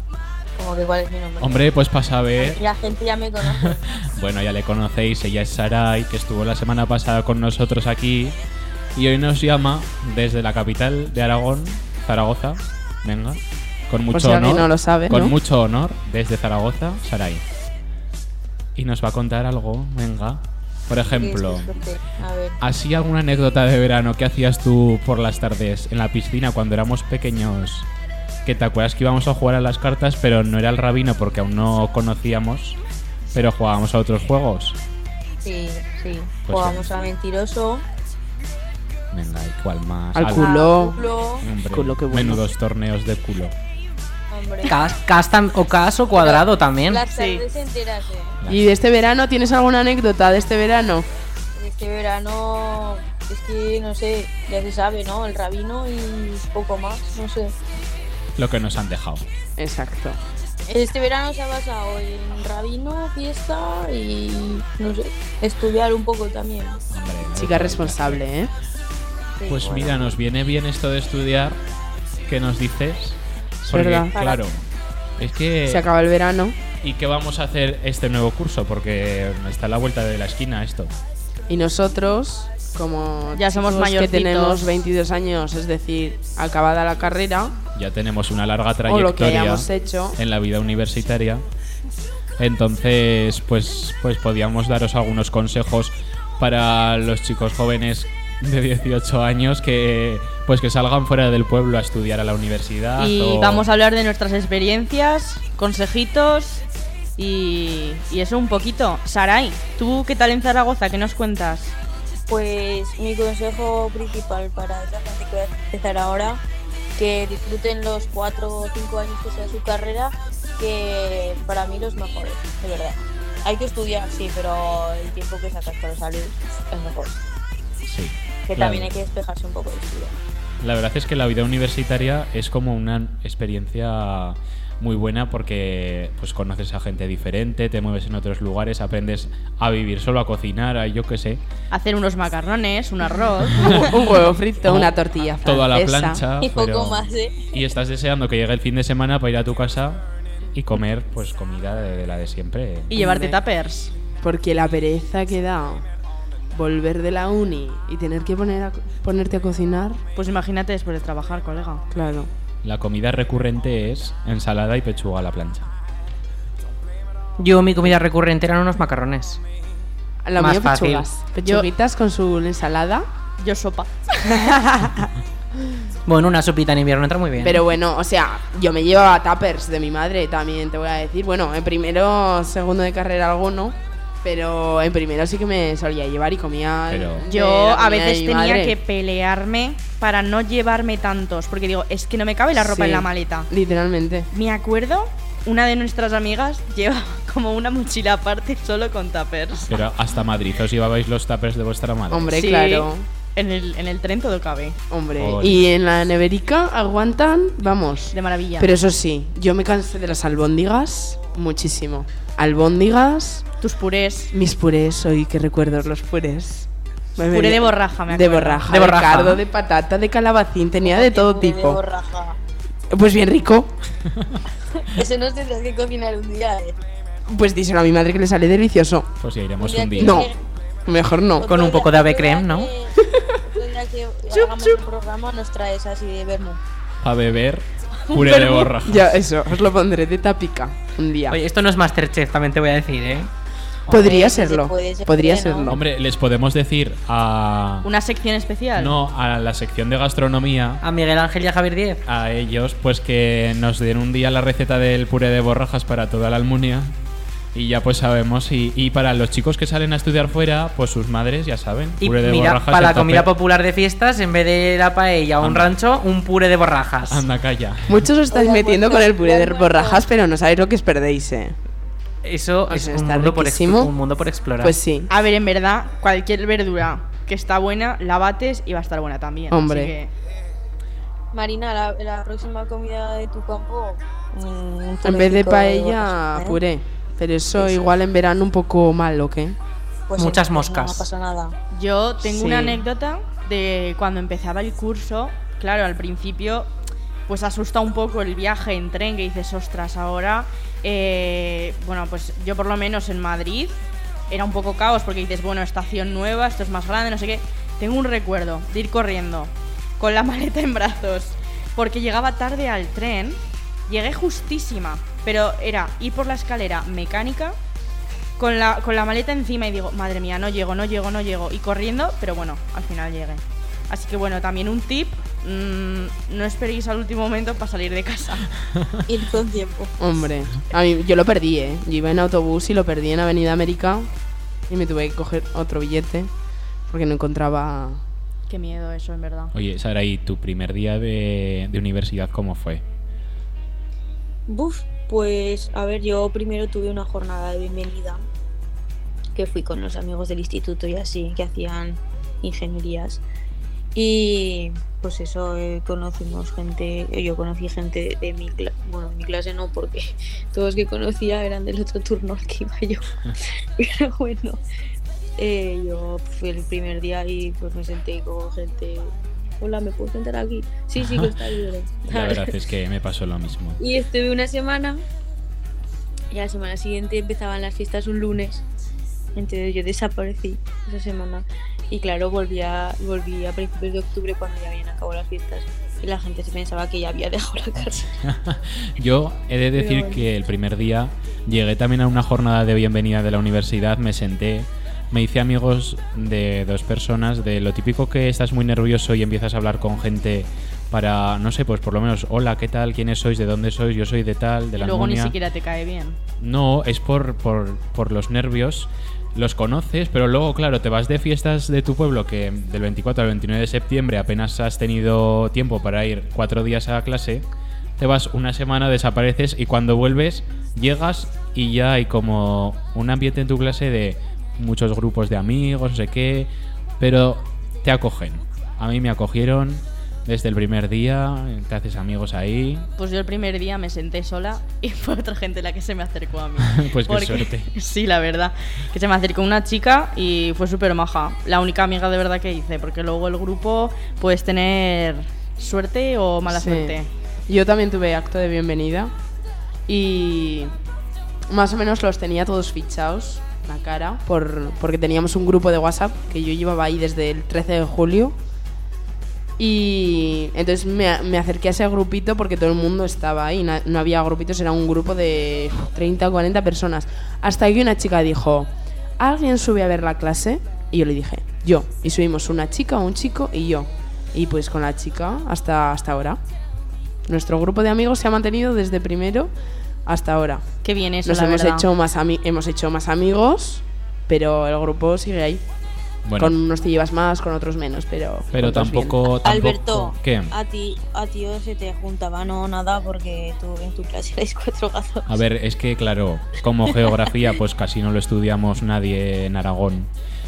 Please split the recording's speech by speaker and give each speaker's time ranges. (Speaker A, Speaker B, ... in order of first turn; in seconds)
Speaker A: 0.6-1.7, 2.4-3.8, 21.0-22.6, 35.4-37.8, 40.3-41.5, 44.3-44.8, 46.1-48.4, 51.5-57.5, 60.7-66.8, 69.4-70.1, 74.1-74.4, 112.3-116.4, 117.0-127.2, 128.5-130.2, 146.4-147.5, 220.8-222.4, 224.8-226.8, 229.6-230.4, 231.4-236.6, 238.1-238.7, 243.9-245.8, 268.3-270.0, 281.3-286.6, 290.1-291.5, 329.1-329.9, 344.5-348.2, 349.3-353.2, 353.9-363.2, 363.8-364.6, 365.4-372.6, 373.8-375.0, 376.3-378.6, 379.4-388.1, 389.7-390.3, 489.4-495.3
Speaker B: 1.4-2.6, 3.4-8.4, 8.9-17.4, 18.8-21.7, 22.6-27.9, 28.4-32.8, 33.3-34.8, 36.4-37.0, 39.1-40.5, 41.4-43.5, 58.4-59.2, 66.9-68.2, 69.5-71.6, 72.3-74.6, 75.2-75.8, 76.8-80.9, 87.7-91.4, 92.4-103.7, 127.9-128.9, 130.6-141.4, 143.6-143.9, 144.7-144.9, 145.4-150.0, 150.5-153.0, 162.6-165.7, 186.9-187.3, 199.7-202.4, 205.2-205.6, 229.2-230.3, 237.0-239.2, 245.7-247.9, 248.8-250.8, 252.1-256.9, 257.5-263.3, 265.4-265.7, 267.1-268.0, 339.5-342.8, 371.0-371.3, 372.0-373.8, 388.0-405.3, 406.4-417.4, 418.0-432.9, 436.6-437.7, 486.2-486.6, 488.5-490.5, 495.3-500.1
Speaker C: 14.1-15.3, 40.1-41.1, 41.7-42.4, 48.5-51.1, 59.6-60.2, 67.3-68.5, 73.6-74.1, 75.7-76.6, 81.5-87.6, 88.8-90.2, 143.6-146.2, 152.9-153.4, 154.2-155.8, 156.5-160.0, 161.9-162.3, 170.2-173.1, 174.3-174.6, 177.4-188.8, 192.5-194.3, 202.1-203.1, 204.9-213.4, 214.3-221.8, 222.9-223.8, 227.3-229.1, 230.0-230.3, 230.9-231.5, 233.0-233.4, 234.3-234.8, 238.8-241.4, 243.9-245.8, 267.9-271.6, 272.7-273.9, 274.6-275.1, 279.5-279.9, 285.0-289.6, 292.2-292.8, 330.0-334.1, 334.7-336.3, 336.9-338.0, 446.5-449.1, 449.9-450.7, 451.5-458.4, 459.6-476.4, 477.3-479.5, 480.1-480.6, 481.2-485.6, 486.4-489.3
Speaker D: 44.6-47.0, 167.4-169.4, 170.4-171.0, 176.1-177.6, 218.7-219.4, 231.4-232.7, 241.3-243.3, 250.8-252.0, 262.0-267.2, 272.2-274.7, 290.2-291.1
Speaker E: 47.1-47.4, 83.3-84.7, 103.0-106.6, 107.2-111.8, 141.7-143.9, 152.9-153.9, 160.2-161.8, 173.4-174.9, 187.3-193.5, 194.3-199.7, 202.3-204.8, 208.1-208.7, 213.6-214.3, 217.3-218.7, 247.8-248.9, 275.1-280.1, 291.7-296.7, 297.3-317.6, 318.4-328.5, 338.5-339.5, 404.8-406.2, 433.0-447.1, 480.8-481.9